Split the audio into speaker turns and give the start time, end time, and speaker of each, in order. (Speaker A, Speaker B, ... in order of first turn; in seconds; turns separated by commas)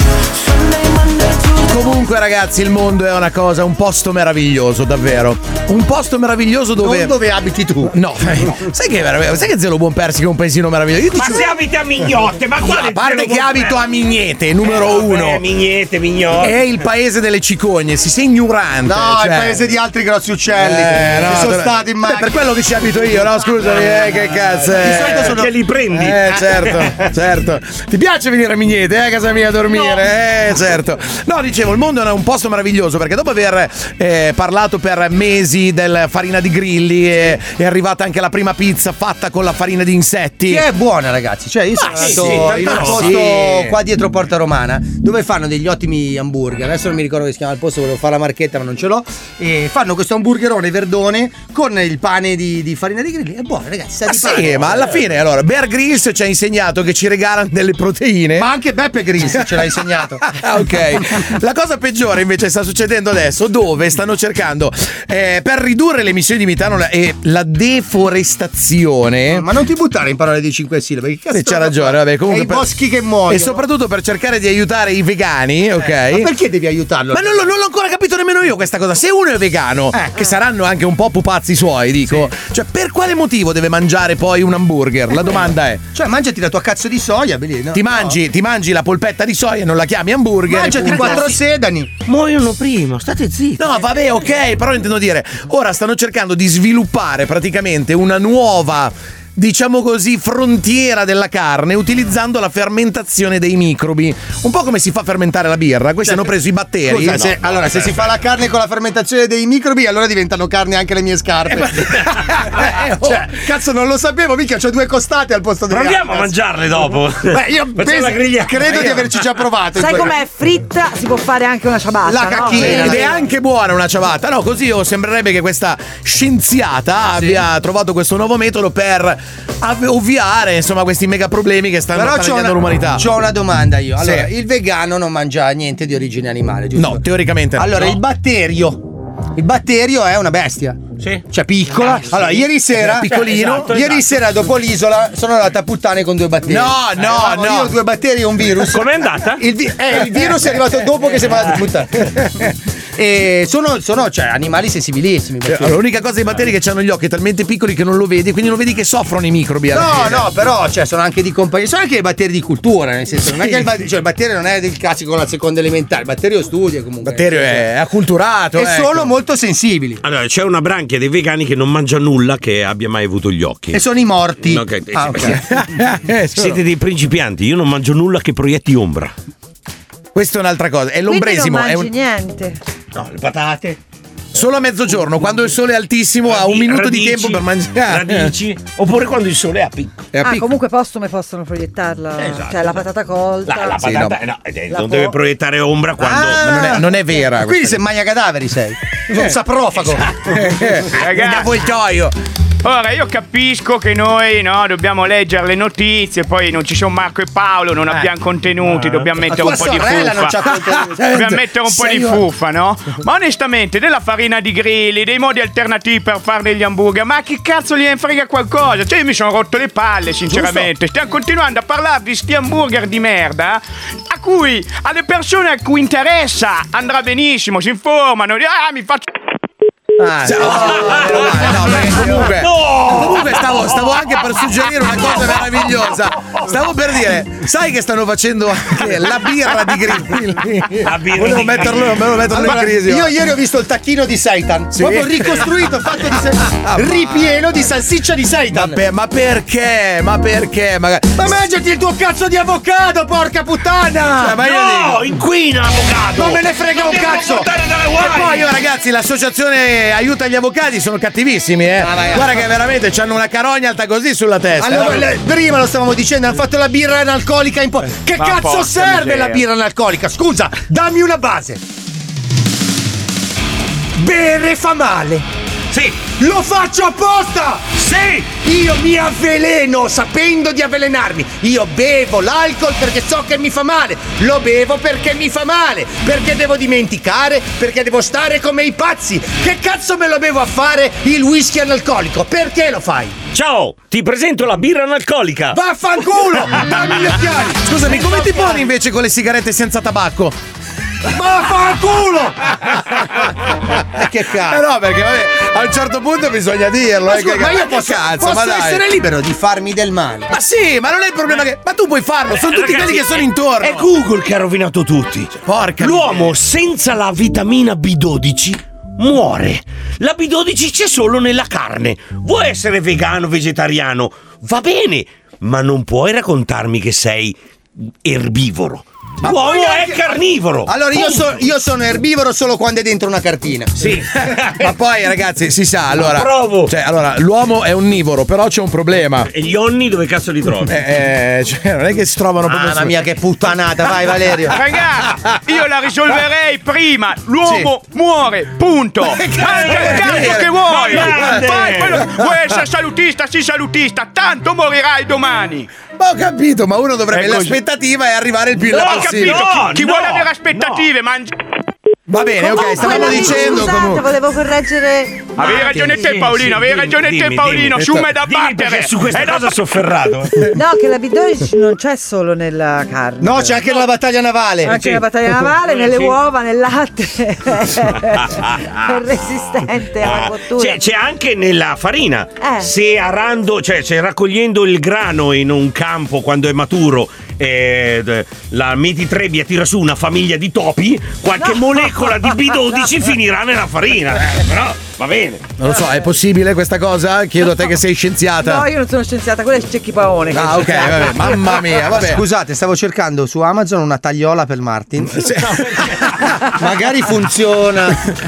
Speaker A: 1.6-7.2, Speaker B: 6.8-7.9, Speaker A: 7.9-11.5, Speaker C: 11.1-13.8, Speaker A: 12.6-15.4, Speaker C: 14.6-16.6, Speaker A: 16.4-19.6, Speaker B: 18.9-22.3, Speaker A: 20.6-25.4, Speaker B: 24.7-25.5, Speaker C: 25.2-26.9, Speaker A: 25.9-40.6, Speaker B: 26.2-26.5, Speaker B: 40.5-55.0, Speaker C: 41.9-43.2, Speaker A: 42.0-43.7, Speaker A: 54.1-58.5, Speaker B: 58.4-60.3, Speaker A: 60.2-69.5, Speaker B: 69.3-73.6, Speaker A: 71.3-72.7, Speaker A: 73.3-76.3, Speaker B: 75.8-77.5, Speaker A: 77.1-85.8, Speaker B: 79.9-80.3, Speaker B: 85.9-88.2, Speaker A: 87.7-91.3, Speaker B: 90.5-92.0, Speaker C: 92.1-93.5, Speaker A: 93.6-107.3, Speaker B: 106.8-116.3, Speaker C: 107.2-108.1, Speaker A: 111.5-113.2, Speaker C: 115.7-119.0, Speaker B: 117.3-120.1, Speaker D: 119.8-123.2, Speaker B: 122.0-123.2, Speaker A: 122.5-133.1, Speaker B: 127.2-127.5, Speaker B: 131.9-137.0, Speaker A: 134.0-134.3, Speaker A: 136.8-137.9, Speaker B: 137.6-152.1, Speaker C: 141.8-142.2, Speaker A: 143.0-143.8, Speaker C: 143.1-144.0, Speaker A: 146.5-147.7, Speaker C: 148.6-149.4, Speaker B: 153.0-155.8, Speaker A: 155.5-160.3, Speaker B: 159.7-167.7, Speaker A: 167.0-169.1, Speaker B: 168.6-170.0, Speaker C: 170.0-173.8, Speaker B: 173.7-175.4, Speaker C: 174.4-175.4, Speaker A: 175.4-176.6, Speaker C: 176.3-179.1, Speaker A: 180.2-181.9, Speaker D: 181.1-182.6, Speaker C: 182.9-183.8, Speaker A: 184.3-188.3, Speaker C: 186.2-190.1, Speaker A: 190.2-190.4, Speaker D: 190.2-193.8, Speaker C: 192.2-192.8, Speaker C: 193.5-196.4, Speaker A: 193.8-194.2, Speaker D: 194.7-195.1, Speaker B: 196.0-200.1, Speaker A: 196.4-197.8, Speaker A: 200.3-202.1, Speaker E: 200.9-201.6, Speaker E: 202.6-229.1, Speaker C: 208.7-209.1, Speaker B: 209.3-211.1, Speaker A: 210.9-212.2, Speaker A: 230.1-243.1, Speaker B: 230.2-231.4, Speaker C: 230.5-231.1, Speaker C: 231.7-234.1, Speaker C: 235.0-235.4, Speaker C: 240.8-241.9, Speaker B: 242.3-248.8, Speaker A: 244.7-245.5, Speaker A: 246.5-247.3, Speaker A: 248.5-251.3, Speaker B: 251.2-254.4, Speaker A: 254.2-255.0, Speaker C: 254.4-258.5, Speaker B: 256.2-257.5, Speaker A: 258.0-265.1, Speaker B: 261.8-262.4, Speaker B: 264.6-271.6, Speaker E: 268.2-269.4, Speaker B: 274.0-275.2, Speaker C: 275.7-276.1, Speaker B: 276.2-293.2, Speaker C: 277.8-278.2, Speaker C: 293.3-295.6, Speaker B: 295.5-298.5, Speaker A: 297.6-300.4, Speaker B: 301.1-302.4, Speaker B: 303.9-304.6, Speaker A: 304.5-308.8, Speaker B: 307.1-310.3, Speaker A: 310.3-313.9, Speaker C: 312.3-331.3, Speaker A: 315.5-316.4, Speaker B: 329.2-330.1, Speaker B: 330.6-334.0, Speaker C: 333.8-334.6, Speaker A: 334.6-339.3, Speaker C: 335.9-336.7, Speaker C: 339.3-340.7, Speaker A: 340.6-343.0, Speaker B: 342.5-344.6, Speaker E: 344.5-355.7, Speaker C: 349.4-352.0, Speaker A: 349.7-351.5, Speaker A: 356.0-359.5, Speaker E: 357.2-357.5, Speaker C: 358.6-360.9, Speaker E: 358.7-361.3, Speaker A: 362.1-364.1, Speaker D: 362.4-366.1, Speaker E: 365.4-369.5, Speaker C: 365.4-370.5, Speaker D: 370.5-373.6, Speaker B: 373.2-374.8, Speaker D: 374.6-380.9, Speaker C: 374.8-375.0, Speaker C: 375.7-376.2, Speaker C: 378.1-379.0, Speaker C: 380.0-395.5, Speaker D: 382.4-382.7, Speaker D: 391.4-392.8, Speaker A: 395.6-398.7, Speaker D: 398.4-401.7, Speaker A: 400.3-402.2, Speaker B: 401.9-405.2, Speaker A: 405.1-406.3, Speaker B: 406.6-408.0